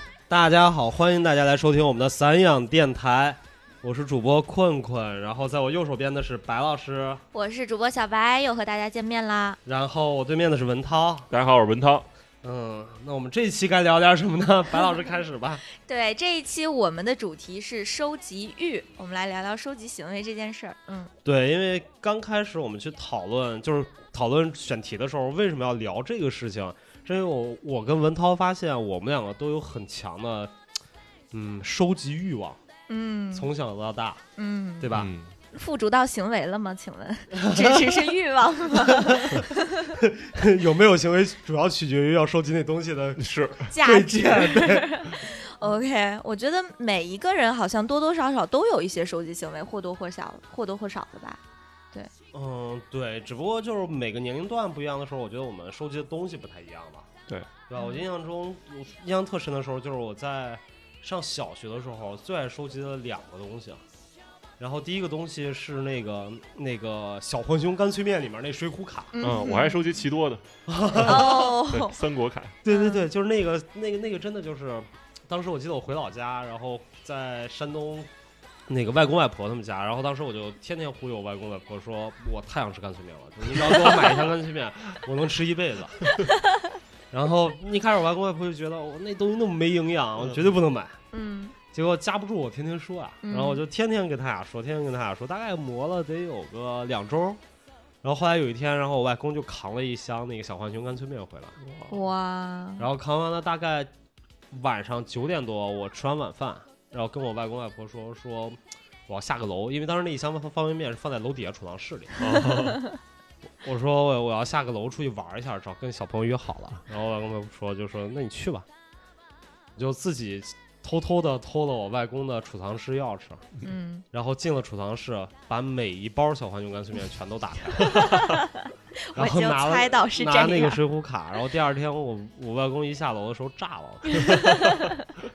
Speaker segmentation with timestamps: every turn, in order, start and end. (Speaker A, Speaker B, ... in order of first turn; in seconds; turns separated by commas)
Speaker A: 0.3-7.2, Speaker B: 7.3-9.6, Speaker A: 9.7-11.3, Speaker C: 11.3-12.1, Speaker A: 12.4-15.6, Speaker B: 15.8-21.1, Speaker A: 21.2-30.5, Speaker A: 31.3-32.6, Speaker B: 32.9-33.5, Speaker A: 33.3-34.2, Speaker B: 34.4-35.0, Speaker A: 34.8-35.1, Speaker C: 34.9-35.3, Speaker B: 35.5-39.9, Speaker A: 37.3-38.1, Speaker A: 38.7-45.0, Speaker C: 43.2-43.7, Speaker B: 43.7-51.4, Speaker A: 52.3-57.1, Speaker A: 57.7-63.8, Speaker B: 57.8-58.0, Speaker A: 64.6-69.1, Speaker B: 69.1-69.8, Speaker C: 69.2-70.4, Speaker A: 70.7-71.6, Speaker B: 71.0-72.0, Speaker C: 71.0-72.5, Speaker A: 72.6-78.1, Speaker B: 72.7-73.1, Speaker A: 78.7-86.1, Speaker A: 87.1-91.0, Speaker B: 91.1-91.5, Speaker A: 91.7-97.4, Speaker B: 93.2-93.6, Speaker A: 98.0-101.6, Speaker C: 101.6-101.9, Speaker B: 101.9-102.9, Speaker A: 102.8-103.9, Speaker A: 104.5-112.4, Speaker C: 112.2-112.8, Speaker B: 112.3-112.9, Speaker A: 113.6-118.7, Speaker A: 119.8-123.5, Speaker B: 123.6-124.0, Speaker A: 124.1-128.3, Speaker B: 127.8-130.8, Speaker A: 129.1-134.4, Speaker B: 134.1-135.0